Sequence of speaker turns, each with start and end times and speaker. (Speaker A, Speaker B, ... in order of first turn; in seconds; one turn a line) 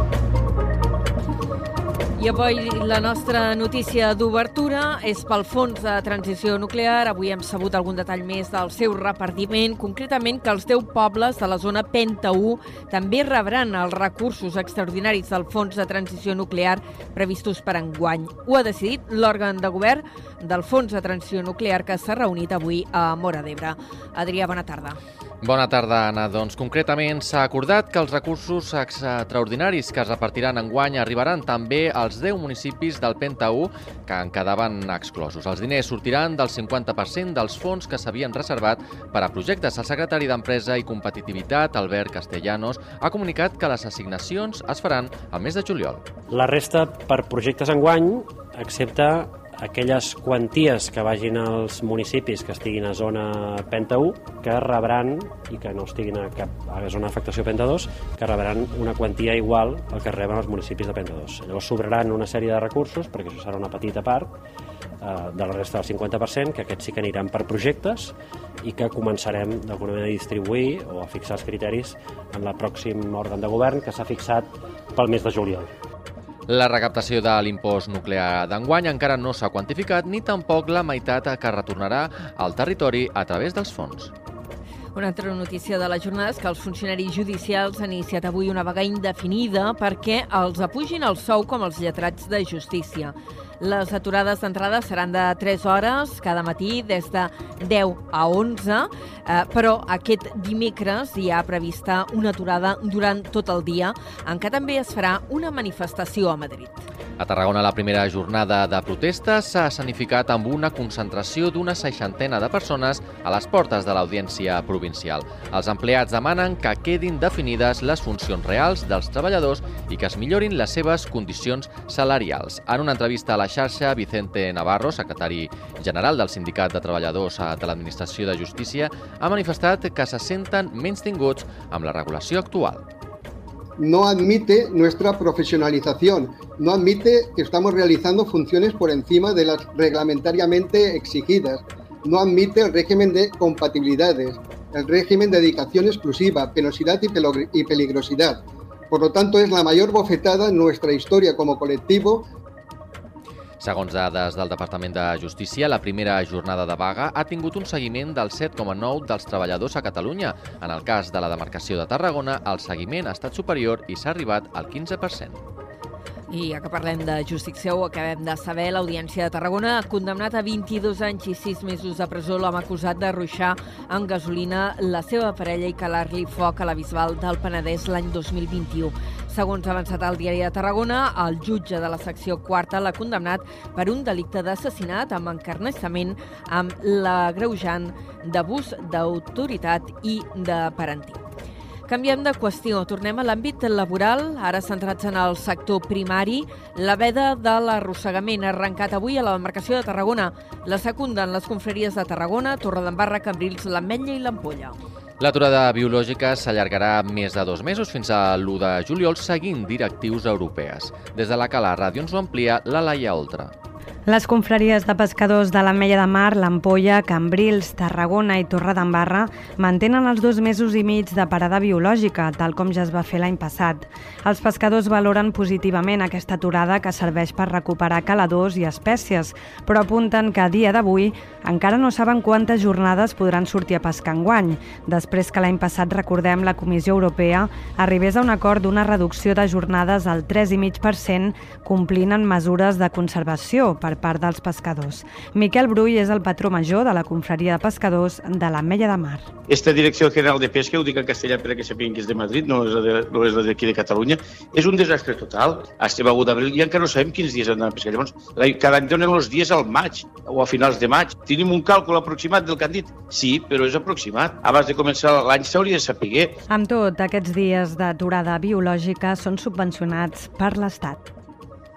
Speaker A: 2.2-25.0
Speaker B: 25.4-46.0
Speaker C: 46.3-64.4
Speaker C: 65.0-75.7
Speaker B: 76.5-84.1
Speaker A: 85.0-106.9
Speaker B: 107.2-132.8
Speaker D: 133.8-148.4
Speaker D: 148.9-152.2
Speaker B: 153.6-165.4
Speaker A: 166.3-191.2
Speaker A: 191.9-204.8
Speaker B: 205.2-213.5
Speaker E: 214.1-249.3
Speaker F: 249.5-266.4
Speaker E: 266.5-271.0